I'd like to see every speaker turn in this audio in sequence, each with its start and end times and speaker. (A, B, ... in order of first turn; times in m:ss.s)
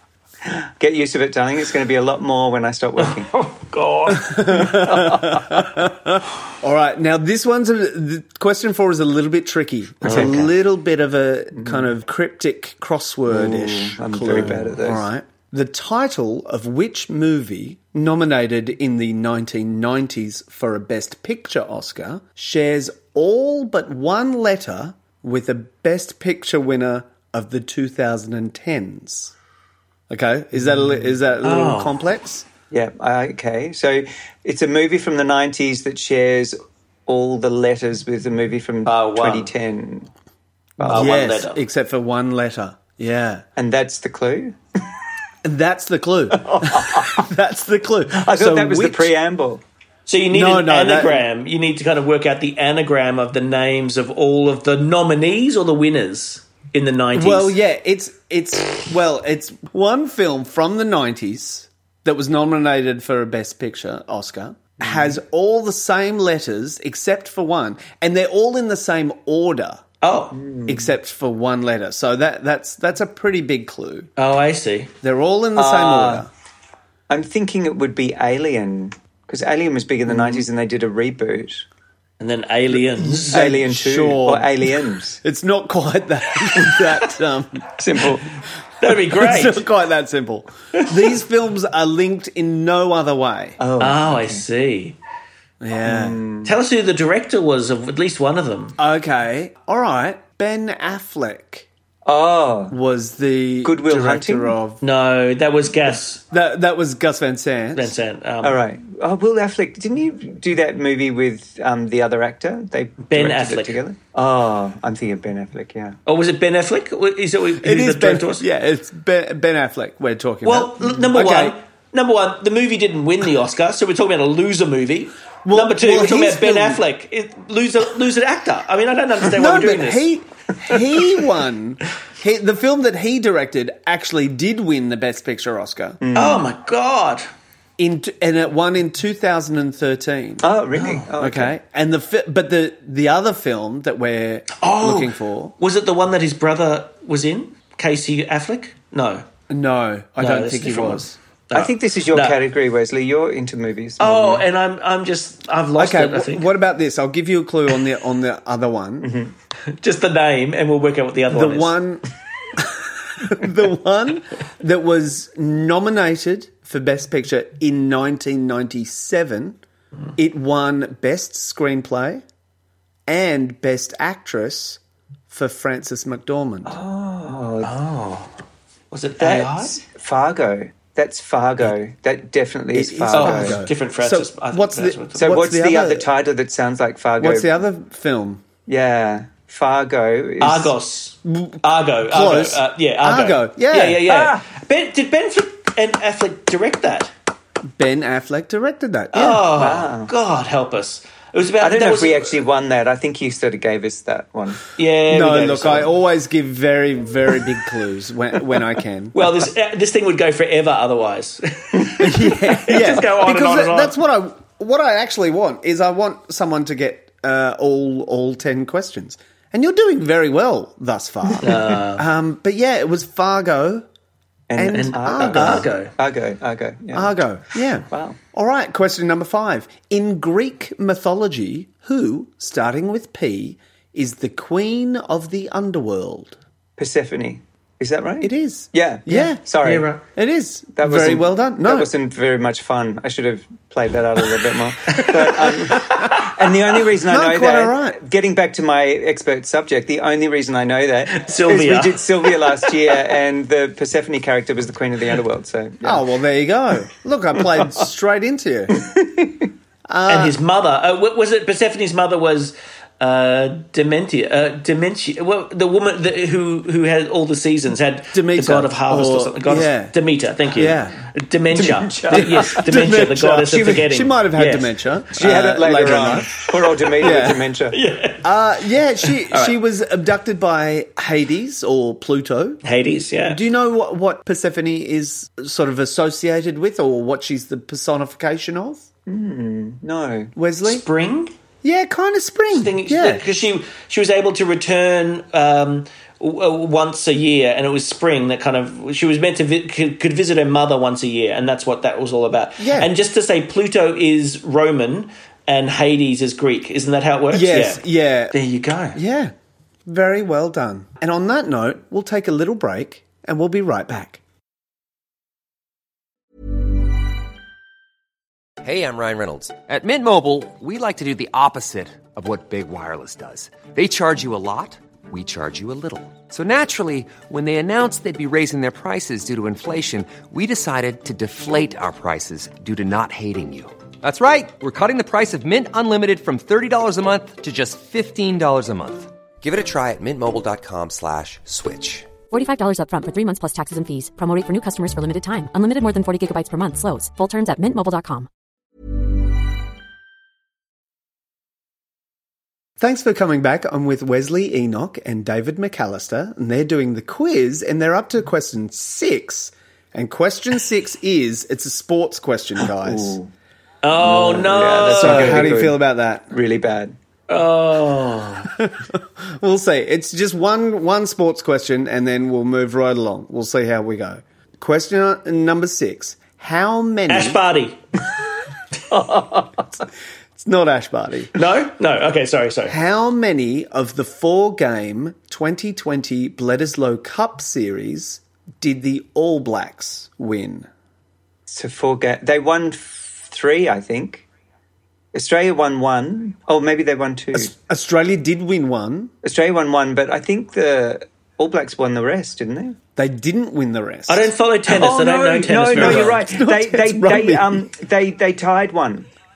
0:00.5-0:03.3 A
0:03.0-0:04.9 B
0:04.2-0:29.3 C
0:04.7-0:05.6 A
0:10.0-0:10.5 B
0:10.0-0:10.5 A
0:11.6-0:11.8 A
0:13.3-0:15.0 A
0:30.1-0:32.5 C
0:31.4-0:31.9 B
0:32.7-0:40.1 A
0:38.9-0:39.5 B
0:40.8-0:41.3 A
0:40.8-0:41.6 B
0:40.9-0:43.4 C
0:43.6-0:44.6 A
0:45.4-0:49.1 C
0:46.3-0:47.3 A
0:48.1-0:49.6 A
0:50.0-0:57.6 B
0:50.3-0:51.2 C
0:57.1-1:09.8 C
1:10.0-1:10.4 B
1:10.3-1:10.9 A
1:10.7-1:14.1 C
1:14.2-1:14.9 B
1:15.0-1:16.3 C
1:15.5-1:16.3 A
1:17.1-1:21.6 A
1:22.2-1:23.4 B
1:22.7-1:27.7 C
1:23.3-1:25.2 A
1:27.8-1:28.3 A
1:28.8-1:29.6 B
1:29.1-1:33.6 C
1:33.6-1:34.4 A
1:33.8-1:35.0 B
1:35.6-1:36.2 C
1:35.8-1:36.5 A
1:36.4-1:38.8 B
1:38.8-1:41.7 C
1:42.0-1:42.8 A
1:42.7-1:44.8 C
1:43.6-1:44.6 A
1:44.8-1:46.2 B
1:46.3-1:48.0 C
1:47.8-1:48.6 B
1:48.4-1:56.0 A
1:53.0-1:53.8 B
1:56.0-1:58.4 B
1:57.6-2:01.6 C
2:00.4-2:10.1 B
2:05.4-2:06.8 C
2:09.3-2:16.0 C
2:16.0-2:16.5 A
2:16.1-2:17.3 B
2:17.8-2:20.5 C
2:20.4-2:21.5 A
2:20.8-2:21.1 B
2:21.2-2:25.5 C
2:24.6-2:29.2 B
2:29.5-2:31.2 C
2:30.2-2:32.4 B
2:31.5-2:34.4 A
2:34.0-2:36.5 B
2:35.8-2:39.1 C
2:39.0-2:39.3 A
2:39.7-2:41.8 B
2:41.3-2:42.0 C
2:42.5-2:49.6 C
2:50.2-2:52.2 C
2:53.1-2:56.8 C
2:56.6-2:57.7 A
2:57.6-2:58.3 B
2:58.9-2:59.8 B
2:59.2-3:03.6 A
3:02.7-3:06.1 C
3:03.1-3:05.3 B
3:05.2-3:07.5 A
3:07.2-3:08.4 C
3:08.7-3:10.8 A
3:10.4-3:17.1 B
3:11.2-3:14.0 C
3:14.1-3:14.4 A
3:17.8-3:19.4 C
3:19.1-3:22.3 B
3:19.5-3:20.1 A
3:21.6-3:24.6 A
3:24.8-3:25.9 B
3:25.1-3:29.3 C
3:29.1-3:34.0 B
3:32.0-3:43.9 C
3:41.4-3:42.1 B
3:44.5-3:47.1 A
3:44.6-3:45.7 C
3:44.7-3:45.9 B
3:46.9-3:56.4 C
3:47.9-3:48.2 A
3:56.8-3:59.9 A
3:58.2-3:59.4 C
3:59.1-4:00.0 B
4:00.0-4:01.9 C
4:00.8-4:16.0 A
4:04.9-4:06.3 B
4:07.0-4:08.0 C
4:11.1-4:12.9 B
4:15.8-4:18.8 C
4:18.8-4:19.4 A
4:19.9-4:20.4 C
4:20.1-4:34.7 B
4:28.1-4:30.0 C
4:30.5-4:31.0 C
4:31.5-4:32.6 A
4:32.1-4:36.3 C
4:35.1-4:37.8 A
4:36.4-4:38.3 B
4:37.0-4:37.4 C
4:38.2-4:42.6 C
4:39.0-4:39.6 B
4:42.6-4:43.4 B
4:43.3-4:48.9 C
4:49.1-4:50.3 A
4:50.4-4:50.8 C
4:50.6-4:51.3 B
4:51.6-4:53.2 C
4:52.5-5:09.0 B
5:02.6-5:02.9 C
5:07.3-5:08.4 C
5:09.0-5:09.3 C
5:09.9-5:14.2 C
5:18.6-5:42.1 D
5:42.3-5:48.3 E
5:52.8-6:03.2 C
6:02.8-6:03.3 A
6:03.8-6:05.5 B
6:04.0-6:07.0 A
6:05.0-6:06.3 C
6:07.3-6:08.5 B
6:08.6-6:17.4 C
6:17.1-6:17.8 B
6:18.9-6:19.6 A
6:20.4-6:21.3 C
6:21.4-6:22.8 B
6:22.7-6:30.7 C
6:31.5-6:34.2 A
6:35.1-6:37.5 A
6:37.3-6:39.1 C
6:39.2-6:42.8 A
6:43.0-6:44.3 C
6:44.1-6:46.2 B
6:44.7-6:49.1 A
6:45.7-6:47.6 C